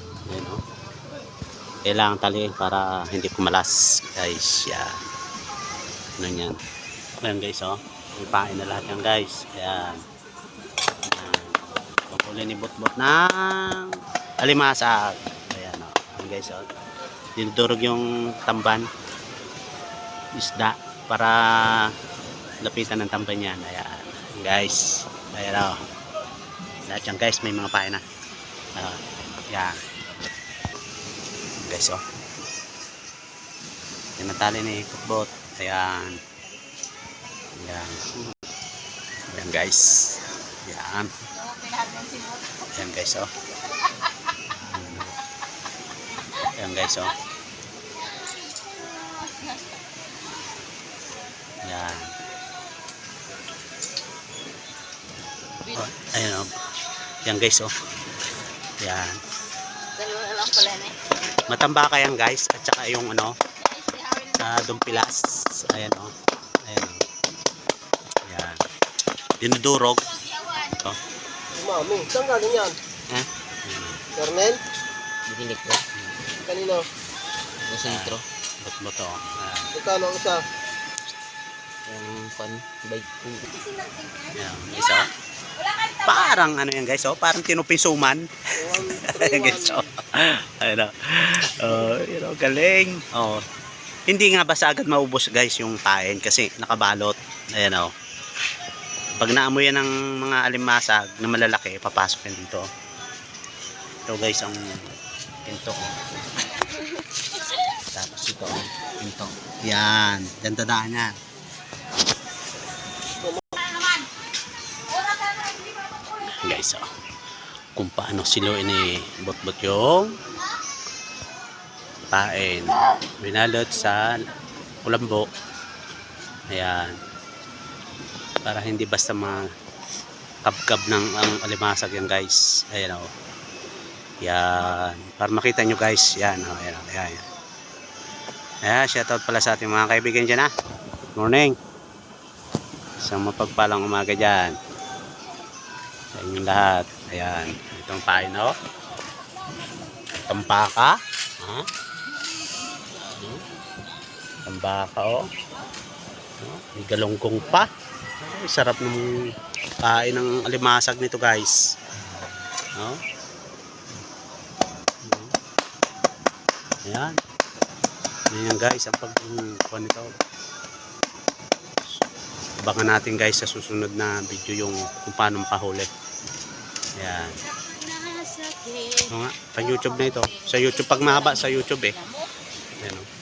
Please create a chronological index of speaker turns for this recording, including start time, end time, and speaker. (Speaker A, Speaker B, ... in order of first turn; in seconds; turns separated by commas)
Speaker A: 0.2-0.6, Speaker A: 1.9-4.9, Speaker A: 6.2-6.6, Speaker A: 7.2-10.0, Speaker A: 11.1-13.9, Speaker A: 14.4-16.6, Speaker A: 17.4-18.8, Speaker A: 20.4-21.9, Speaker A: 22.6-24.8, Speaker A: 25.3-25.7, Speaker A: 26.9-28.0, Speaker A: 31.6-32.0, Speaker A: 34.2-36.1, Speaker A: 37.6-38.1, Speaker A: 39.3-41.1, Speaker B: 41.4-42.6, Speaker A: 42.7-43.3, Speaker A: 44.6-45.2, Speaker A: 46.6-47.1, Speaker A: 51.6-52.0, Speaker A: 55.7-56.5, Speaker A: 57.2-57.7, Speaker A: 58.8-59.1, Speaker B: 60.0-60.9, Speaker A: 61.5-63.3, Speaker B: 63.8-64.4, Speaker A: 64.4-66.1, Speaker A: 66.7-67.0, Speaker A: 68.3-68.6, Speaker A: 69.4-70.0, Speaker A: 70.7-71.0, Speaker C: 71.6-72.7, Speaker A: 73.1-74.0, Speaker C: 74.2-74.6, Speaker D: 75.3-75.8, Speaker A: 75.9-76.3, Speaker C: 76.5-76.8, Speaker D: 77.7-78.2, Speaker A: 77.8-79.7, Speaker C: 79.8-80.3, Speaker D: 81.9-83.5, Speaker A: 84.3-85.1, Speaker A: 86.0-93.4, Speaker C: 88.7-89.8, Speaker A: 94.1-97.9, Speaker A: 99.2-102.6, Speaker A: 104.1-104.6, Speaker A: 105.5-105.9, Speaker A: 107.9-111.1, Speaker A: 116.4-116.8, Speaker A: 117.8-120.1, Speaker A: 122.1-124.2, Speaker A: 124.8-125.3, Speaker A: 126.5-127.0, Speaker A: 128.4-129.4, Speaker A: 130.4-133.1, Speaker A: 134.2-137.2, Speaker A: 138.6-140.5, Speaker A: 141.2-141.5, Speaker A: 143.0-144.5, Speaker A: 146.1-148.5, Speaker A: 150.3-151.7, Speaker A: 153.1-153.4, Speaker A: 154.5-155.2, Speaker A: 156.4-157.7, Speaker A: 158.2-159.1, Speaker A: 159.8-163.0, Speaker A: 165.0-165.3, Speaker A: 166.8-167.2, Speaker A: 168.3-170.1, Speaker A: 172.7-175.9, Speaker A: 177.0-177.3, Speaker B: 177.8-179.0, Speaker A: 179.1-182.0, Speaker B: 179.8-182.3, Speaker A: 182.8-183.1